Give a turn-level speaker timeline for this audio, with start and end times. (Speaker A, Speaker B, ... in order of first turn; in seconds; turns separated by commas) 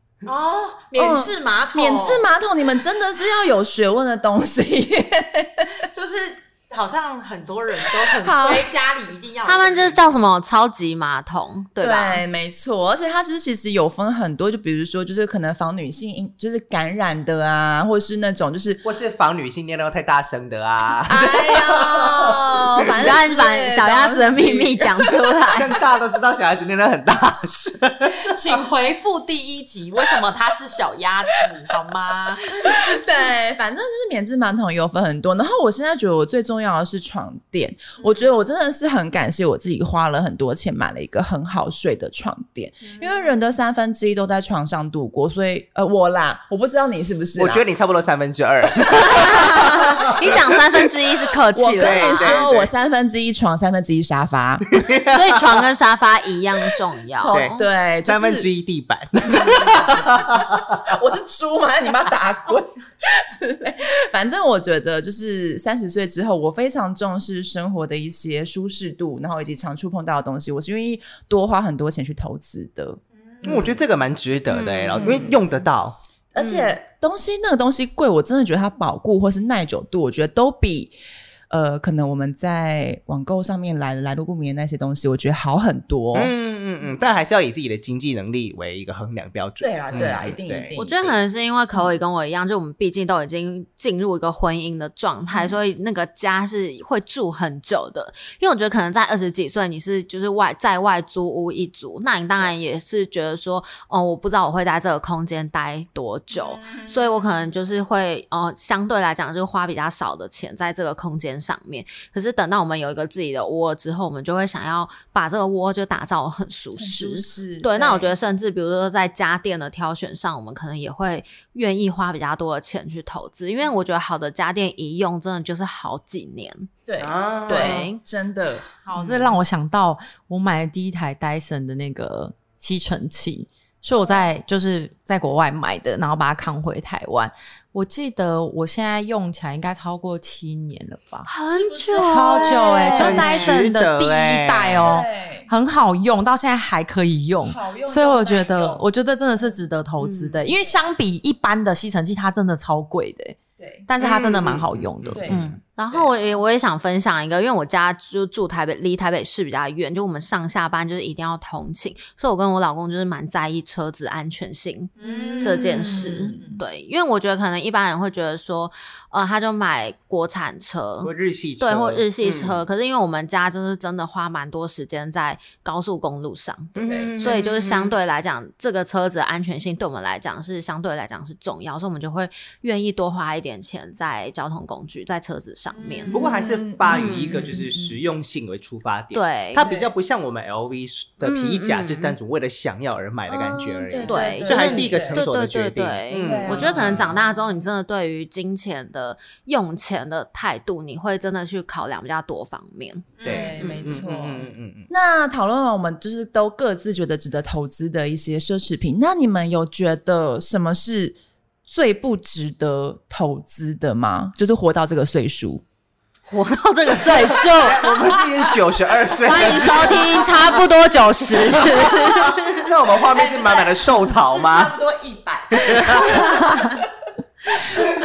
Speaker A: 0.2-2.2, Speaker B: 0.9-5.8, Speaker A: 5.9-10.0, Speaker B: 8.0-8.7, Speaker C: 9.4-12.2, Speaker B: 11.8-18.8, Speaker D: 18.8-22.9, Speaker B: 21.0-25.4, Speaker C: 23.0-25.7, Speaker D: 25.5-28.3, Speaker A: 28.2-32.7, Speaker B: 32.6-47.6, Speaker D: 47.3-50.5, Speaker C: 49.0-52.4, Speaker B: 51.5-54.6, Speaker D: 51.8-52.7, Speaker D: 54.7-55.4, Speaker C: 55.1-57.6, Speaker B: 57.2-58.5, Speaker D: 57.3-60.9, Speaker B: 59.2-73.8, Speaker D: 73.4-76.7, Speaker C: 74.5-75.3, Speaker B: 74.9-75.4, Speaker B: 76.3-80.9, Speaker B: 81.5-86.3, Speaker D: 86.1-90.7, Speaker B: 89.6-91.2, Speaker C: 90.7-126.7, Speaker B: 116.8-118.1, Speaker B: 126.9-128.7, Speaker D: 127.0-127.8, Speaker C: 127.5-128.0, Speaker A: 128.8-141.3, Speaker C: 141.2-143.5, Speaker B: 141.4-143.5, Speaker A: 142.0-155.2, Speaker D: 143.0-144.9, Speaker B: 144.8-145.5, Speaker B: 147.4-148.8, Speaker C: 150.0-150.4, Speaker B: 153.6-153.8, Speaker D: 154.0-155.6, Speaker B: 155.1-155.5, Speaker C: 155.3-186.2, Speaker A: 165.0-166.6, Speaker B: 165.0-166.5, Speaker D: 171.0-172.6, Speaker D: 176.8-177.9, Speaker B: 176.8-177.1, Speaker A: 185.8-186.1, Speaker B: 186.1-187.9, Speaker D: 186.1-197.1, Speaker C: 186.8-187.5, Speaker C: 189.1-189.7, Speaker B: 189.6-189.9, Speaker C: 191.2-192.1, Speaker B: 193.3-195.2, Speaker C: 194.0-203.9, Speaker B: 196.2-197.1, Speaker A: 203.2-203.6, Speaker D: 203.2-204.9, Speaker B: 203.2-215.6, Speaker C: 216.3-218.0, Speaker D: 217.5-220.3, Speaker C: 219.2-222.7, Speaker B: 219.3-220.6, Speaker D: 221.5-224.7, Speaker B: 221.6-222.3, Speaker B: 223.0-226.8, Speaker D: 225.5-226.2, Speaker A: 225.8-226.8, Speaker A: 227.6-227.9